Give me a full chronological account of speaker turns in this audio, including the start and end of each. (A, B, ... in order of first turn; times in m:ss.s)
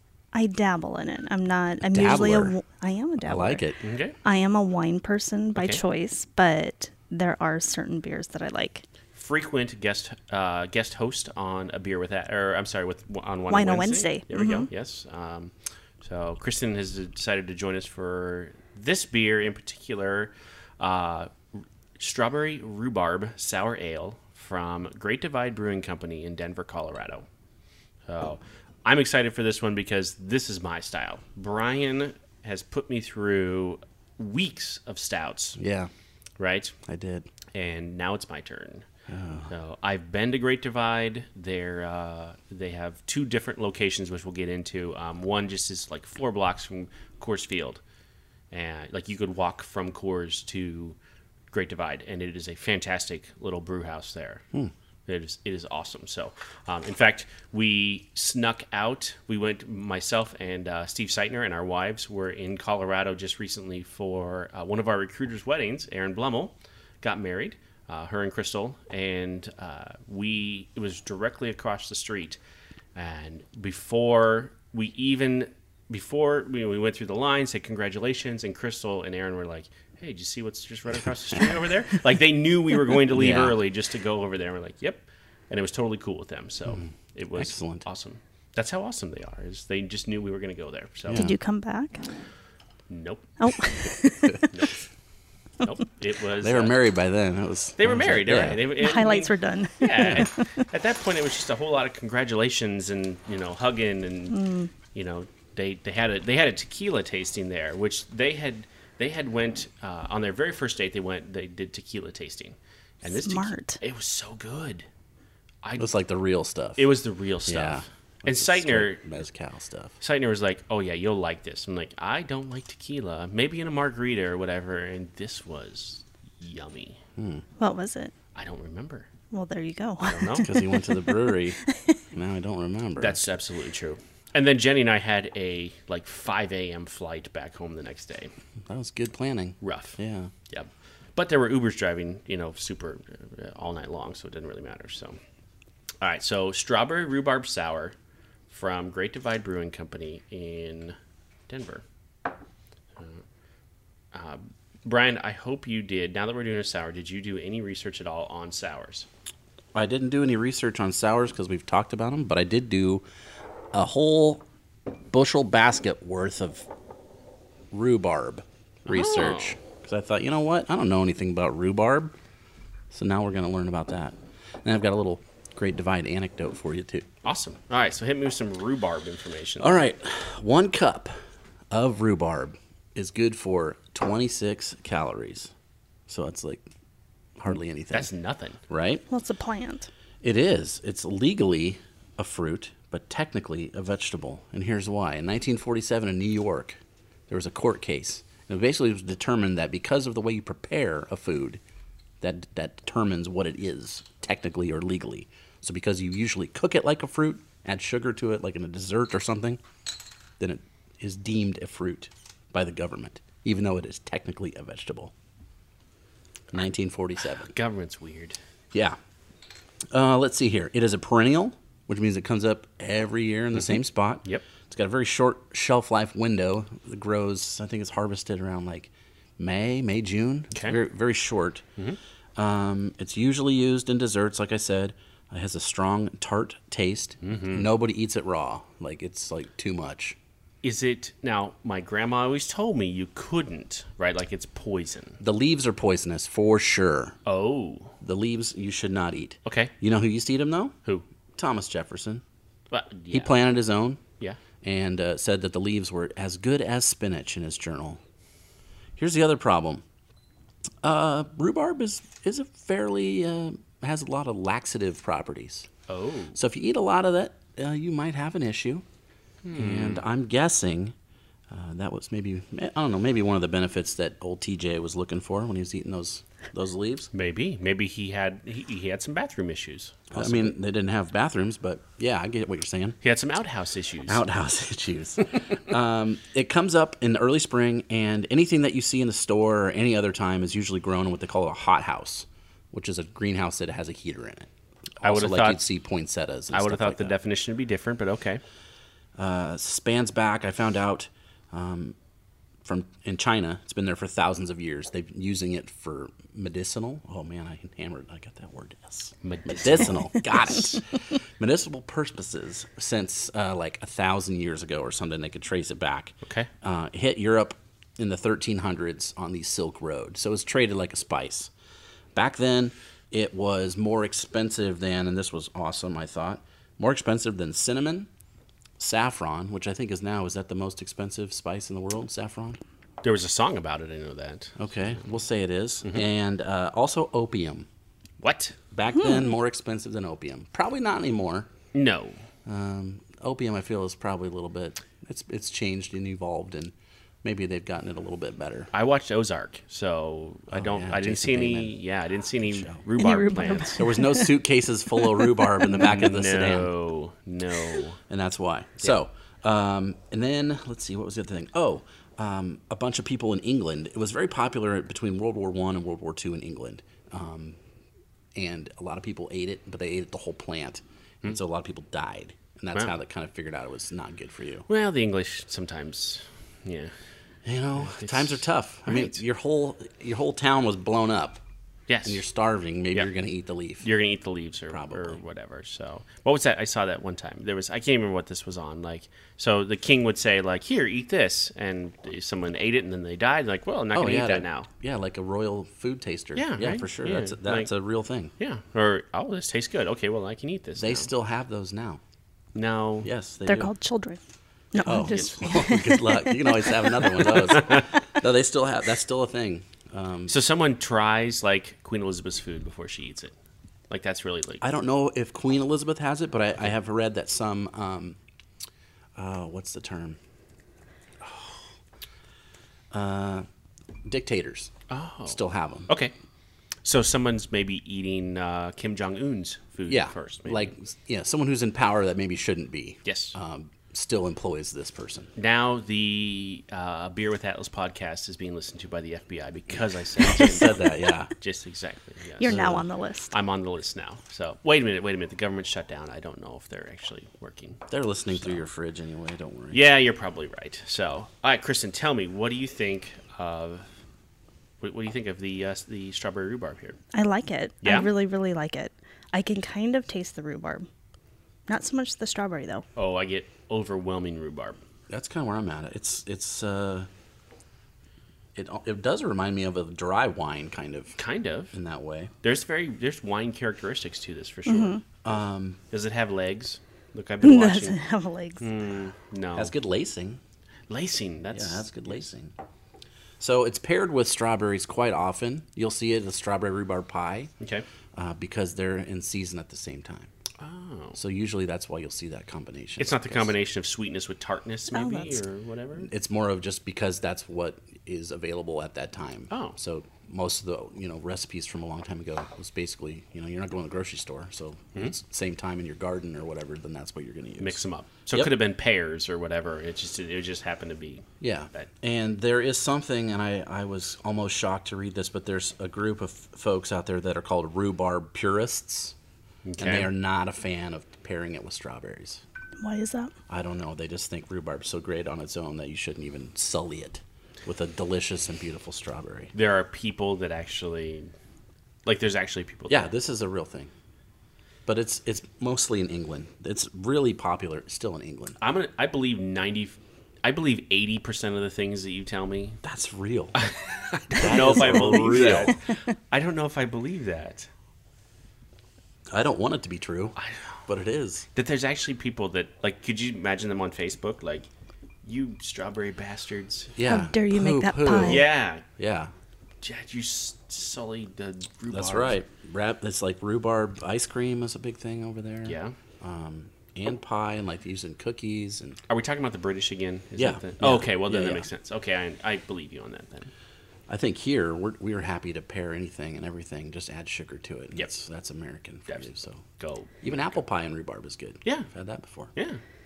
0:00.3-0:03.6 A
0:01.8-0:02.6 B
0:03.2-0:03.8 B
0:03.8-0:04.2 C
0:04.2-0:08.8 A
0:09.1-0:21.3 C
0:13.5-0:14.7 A
0:22.0-0:27.2 C
0:28.1-0:35.6 C
0:35.6-0:35.9 B
0:36.4-0:36.7 C
0:36.8-0:37.3 B
0:37.5-0:38.8 C
0:39.1-0:39.5 B
0:39.5-0:47.8 C
0:48.5-0:51.0 C
0:51.5-0:54.4 C
0:55.0-1:12.4 C
1:12.9-1:31.2 C
1:23.1-1:23.6 B
1:26.7-1:27.8 B
1:31.1-1:31.4 B
1:31.1-1:32.0 A
1:32.9-1:33.3 C
1:33.4-1:34.4 A
1:34.5-1:34.9 C
1:35.6-1:36.7 C
1:36.4-1:38.6 B
1:37.8-1:44.4 C
1:38.8-1:40.6 A
1:40.0-1:40.3 B
1:44.3-1:44.7 A
1:44.9-1:54.8 C
1:53.0-1:53.8 A
1:55.6-1:55.9 C
1:55.8-1:56.9 B
1:56.8-1:59.0 C
1:57.4-2:00.0 B
2:00.0-2:07.0 C
2:07.2-2:07.4 B
2:07.6-2:08.1 A
2:08.3-2:09.1 C
2:09.3-2:11.9 A
2:10.0-2:10.5 C
2:10.4-2:11.6 B
2:12.1-2:13.2 B
2:13.0-2:18.3 C
2:18.6-2:20.3 B
2:19.6-2:20.0 C
2:20.5-2:25.2 C
2:26.0-2:27.9 C
2:28.5-2:30.9 C
2:31.5-2:31.8 C
2:33.0-2:33.2 C
2:34.1-2:39.1 C
2:39.7-2:43.0 B
2:43.7-2:44.4 B
2:45.1-2:46.7 B
2:47.7-2:52.1 B
2:48.9-2:49.6 C
2:52.9-2:57.1 B
2:57.2-2:59.8 C
2:59.6-3:01.1 B
3:01.7-3:05.5 B
3:06.1-3:06.7 B
3:07.4-3:08.1 B
3:07.9-3:08.6 C
3:08.7-3:09.0 B
3:09.1-3:09.9 A
3:10.2-3:21.6 B
3:22.2-3:29.6 B
3:30.4-3:35.1 B
3:36.5-3:37.5 B
3:37.3-3:38.4 C
3:39.9-3:51.6 B
3:43.7-3:44.4 C
3:52.4-4:00.2 B
3:57.2-3:57.7 C
4:00.6-4:05.2 C
4:05.2-4:07.2 B
4:07.2-4:07.9 C
4:08.0-4:10.7 B
4:09.4-4:09.7 C
4:11.4-4:12.2 B
4:12.7-4:13.3 C
4:13.1-4:14.0 B
4:14.6-4:18.0 B
4:19.0-4:19.8 B
4:20.8-4:25.7 B
4:25.9-4:26.4 C
4:26.3-4:28.8 B
4:29.4-4:30.0 C
4:29.5-4:30.9 B
4:31.5-4:37.1 B
4:37.1-4:40.5 C
4:40.1-4:43.0 B
4:43.0-4:44.2 C
4:44.0-4:54.5 B
4:55.0-4:57.2 B
4:55.0-4:55.6 C
4:56.5-4:58.4 C
4:59.2-5:02.0 B
5:02.6-5:21.5 B
5:09.2-5:10.8 C
5:16.2-5:16.5 C
5:22.1-5:28.1 B
5:28.8-5:32.6 B
5:33.0-5:35.0 C
5:34.6-5:37.7 B
5:38.2-5:38.6 C
5:38.7-5:41.5 B
5:38.9-5:39.3 A
5:41.7-5:42.2 C
5:42.4-5:48.7 B
5:48.7-5:53.8 C
5:50.5-5:51.8 B
5:52.4-5:52.8 B
5:53.0-5:54.3 A
5:53.8-5:56.7 B
5:54.9-5:55.8 A
5:55.7-5:58.0 C
5:58.1-6:07.6 B
6:08.3-6:14.7 B
6:14.7-6:16.9 C
6:17.4-6:21.4 B
6:17.7-6:19.2 C
6:21.9-6:22.2 C
6:22.0-6:23.9 B
6:23.8-6:34.7 C
6:24.7-6:25.2 B
6:33.9-6:38.3 B
6:36.3-6:37.7 C
6:38.4-6:41.1 C
6:40.8-6:42.0 B
6:42.5-6:43.1 C
6:43.0-6:43.7 B
6:43.4-6:44.2 A
6:44.7-6:47.2 A
6:44.8-6:45.5 C
6:44.8-6:50.4 B
6:47.2-6:47.9 C
6:50.3-6:53.3 C
6:53.9-6:54.6 C
6:54.6-6:58.2 B
6:59.2-7:00.2 B
7:01.2-7:01.6 B
7:02.9-7:03.4 B
7:04.0-7:04.7 B
7:04.9-7:06.1 C
7:05.2-7:05.9 B
7:06.8-7:10.7 C
7:09.9-7:15.3 B
7:13.0-7:13.3 C
7:15.4-7:22.8 C
7:20.2-7:21.3 B
7:22.4-7:23.3 A
7:22.4-7:22.8 B
7:23.3-7:28.6 C
7:27.9-7:29.8 B
7:29.7-7:33.9 C
7:34.8-7:37.0 C
7:37.1-7:40.9 A
7:37.8-7:38.1 C
7:41.7-7:42.8 A
7:43.0-7:44.8 C
7:45.1-7:47.1 B
7:48.5-7:51.2 B
7:51.2-7:51.7 C
7:51.7-7:52.3 B
7:52.4-7:55.0 C
7:54.6-7:55.0 A
7:55.2-7:55.8 B
7:55.9-7:58.0 C
7:57.4-7:58.6 A
7:58.6-7:59.7 C
7:59.5-8:00.4 B
8:00.9-8:02.2 C
8:01.5-8:02.5 B
8:03.4-8:07.5 B
8:08.1-8:10.3 B
8:10.6-8:11.2 C
8:11.1-8:13.5 B
8:13.0-8:16.1 C
8:14.9-8:15.4 A
8:16.0-8:27.8 B
8:19.5-8:19.8 C
8:27.6-8:31.9 C
8:31.4-8:39.1 B
8:39.6-8:40.1 C
8:39.8-8:42.4 B
8:42.8-8:43.3 A
8:43.5-8:49.5 B
8:49.5-8:51.3 C
8:52.0-8:53.1 C
8:52.9-8:53.9 B
8:54.9-8:58.6 B
8:58.6-9:02.8 C
9:02.8-9:03.6 B
9:03.6-9:07.7 C
9:04.3-9:05.8 B
9:09.3-9:11.5 B
9:10.4-9:10.8 C
9:11.5-9:14.7 C
9:15.2-9:16.9 C
9:16.9-9:19.3 B
9:17.0-9:18.4 A
9:18.2-9:18.8 C
9:19.8-9:22.4 C
9:21.9-9:29.0 B
9:25.6-9:26.0 C
9:29.1-9:33.5 C
9:30.4-9:31.7 B
9:34.1-9:39.6 B
9:39.1-9:40.6 C
9:40.2-9:42.5 B
9:42.6-9:42.8 C